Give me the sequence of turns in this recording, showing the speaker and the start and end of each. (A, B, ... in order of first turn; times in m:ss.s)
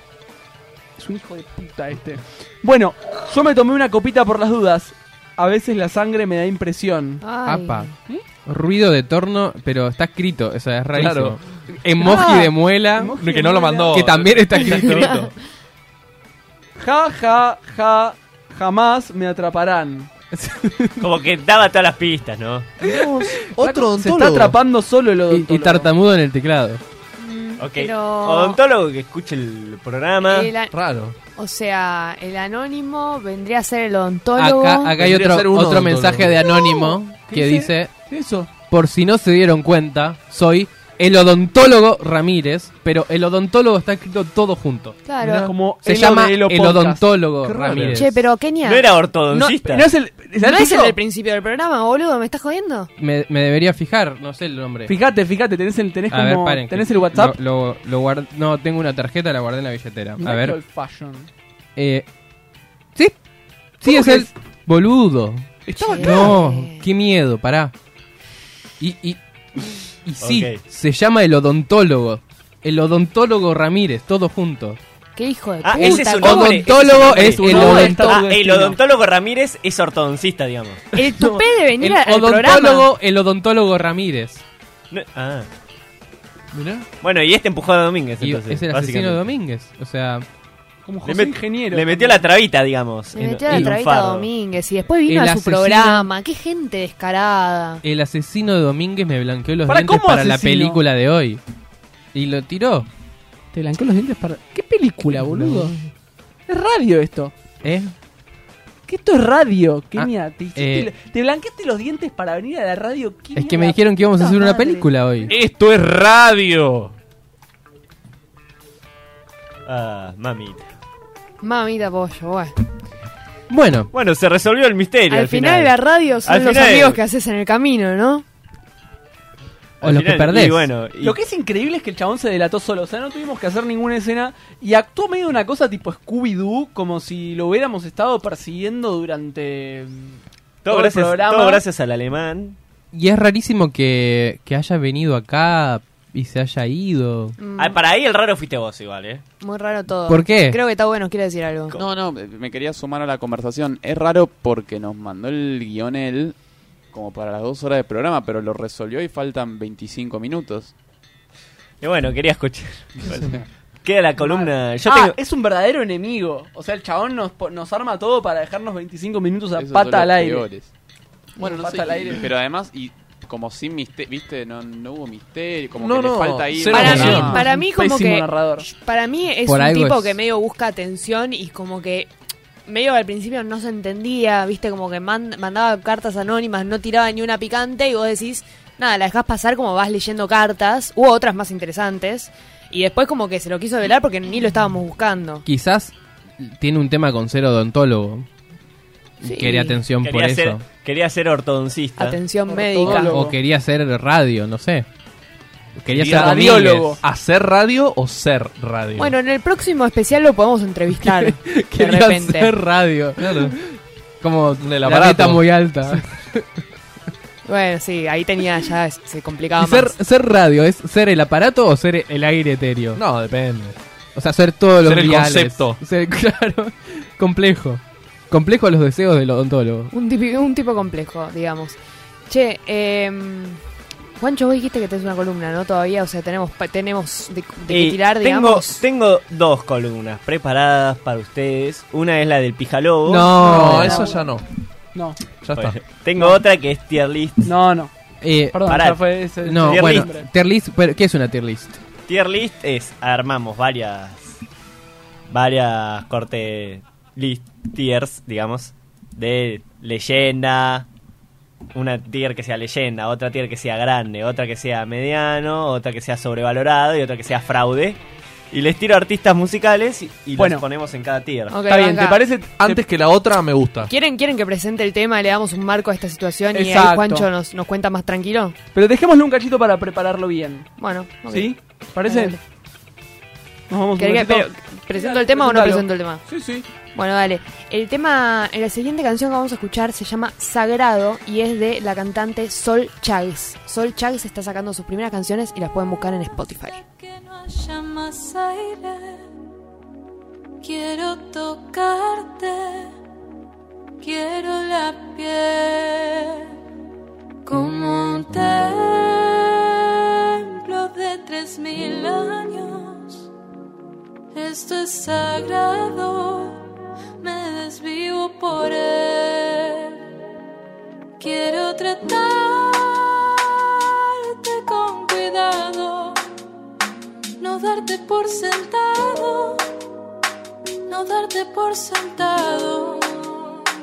0:01.0-0:07.2 A
0:07.2-0:07.9 B
0:07.4-0:07.9 C
0:08.4-0:13.2 C
0:10.9-0:11.4 D
0:12.0-0:14.0 A
0:13.2-0:15.3 D
0:13.9-0:15.2 C
0:14.8-0:15.2 B
0:16.8-0:20.1 A
0:21.0-0:22.7 E
0:22.8-0:25.9 A
0:23.5-0:24.6 D
0:25.3-0:26.8 C
0:27.2-0:28.6 B
0:27.6-0:30.5 E
0:30.2-0:30.7 B
0:30.7-0:31.1 D
0:31.4-0:35.0 B
0:34.4-0:37.9 C
0:35.0-0:36.4 D
0:37.3-0:38.5 A
0:38.7-0:45.0 C
0:45.0-0:45.5 B
0:45.2-0:45.5 D
0:45.3-0:47.1 A
0:45.8-0:48.1 C
0:47.4-0:48.2 D
0:47.9-0:48.9 B
0:48.6-0:49.9 E
0:49.3-0:51.0 A
0:50.4-0:52.9 B
0:53.0-0:54.9 C
0:54.8-0:57.4 A
0:56.1-1:00.6 C
1:00.2-1:01.3 A
1:01.8-1:02.0 C
1:03.8-1:07.7 C
1:03.8-1:04.3 A
1:05.7-1:06.0 D
1:05.8-1:06.4 A
1:05.9-1:06.8 B
1:08.8-1:09.2 C
1:10.0-1:14.8 C
1:10.2-1:10.6 E
1:15.2-1:16.7 B
1:15.6-1:20.9 E
1:15.8-1:18.2 C
1:16.4-1:18.8 A
1:20.9-1:22.9 B
1:21.8-1:24.4 C
1:24.9-1:25.5 E
1:26.5-1:26.9 D
1:27.0-1:29.2 E
1:28.2-1:30.2 C
1:30.8-1:32.2 A
1:31.0-1:34.3 E
1:33.2-1:37.8 B
1:33.2-1:33.8 C
1:35.0-1:36.1 C
1:37.8-1:41.4 C
1:39.6-1:40.8 A
1:42.1-1:42.9 C
1:43.5-1:45.8 A
1:45.1-1:45.7 C
1:46.5-1:47.3 A
1:47.6-1:47.9 C
1:48.9-1:54.6 A
1:49.9-1:50.9 C
1:53.3-1:55.3 C
1:54.4-1:55.2 B
1:55.3-1:56.9 D
1:59.6-2:00.7 E
2:01.4-2:02.5 B
2:03.5-2:03.9 C
2:03.9-2:07.0 E
2:05.1-2:08.2 B
2:09.8-2:11.2 E
2:09.8-2:10.7 C
2:11.0-2:21.6 A
2:20.6-2:22.6 E
2:22.9-2:27.4 C
2:27.4-2:27.8 B
2:27.6-2:29.2 E
2:29.4-2:31.7 B
2:30.1-2:30.6 C
2:31.7-2:36.4 F
2:36.9-2:40.7 F
2:41.8-2:45.2 E
2:44.2-2:50.5 A
2:49.5-2:50.7 F
2:51.4-2:52.2 A
2:51.6-2:52.0 D
2:51.7-2:57.4 F
2:55.8-2:57.4 D
2:56.7-2:58.7 A
2:56.7-3:02.1 B
2:59.4-3:00.2 C
3:02.7-3:15.4 B
3:15.4-3:18.2 C
3:19.2-3:20.6 C
3:19.2-3:19.8 B
3:20.0-3:22.2 E
3:22.0-3:23.2 B
3:22.5-3:23.4 A
3:22.9-3:24.8 C
3:25.8-3:27.0 C
3:25.9-3:29.1 D
3:26.0-3:27.0 A
3:29.0-3:32.5 B
3:31.0-3:33.6 C
3:33.2-3:33.6 D
3:34.2-3:36.4 C
3:34.6-3:35.6 D
3:37.4-3:39.9 B
3:39.6-3:43.0 C
3:42.9-3:43.8 D
3:44.1-3:49.9 C
3:44.8-3:45.8 D
3:49.9-3:51.8 B
3:52.3-3:53.6 B
3:54.2-3:58.8 B
3:57.7-4:03.5 E
4:03.0-4:04.0 C
4:03.4-4:04.2 A
4:03.4-4:04.4 D
4:04.9-4:05.2 A
4:05.4-4:05.8 D
4:05.5-4:07.5 E
4:07.4-4:07.9 A
4:08.2-4:08.7 C
4:08.5-4:10.3 A
4:08.7-4:10.1 E
4:09.4-4:11.8 C
4:12.1-4:14.4 E
4:15.3-4:20.9 E
4:21.7-4:28.0 E
4:28.5-4:31.6 E
4:30.4-4:30.6 A
4:31.5-4:32.2 B
4:31.6-4:32.8 A
4:32.6-4:33.9 D
4:33.9-4:38.6 B
4:36.5-4:37.3 A
4:38.7-4:40.7 A
4:40.8-4:42.4 B
4:41.3-4:42.4 A
4:43.7-4:46.7 A
4:44.0-4:46.2 B
4:46.9-4:56.8 B
4:56.8-4:59.2 G
5:00.6-5:02.9 G
5:04.0-5:06.5 G
5:07.4-5:13.3 G
5:14.3-5:16.6 G
5:17.2-5:20.0 G
5:21.2-5:26.2 G
5:27.4-5:29.7 G
5:30.9-5:33.7 G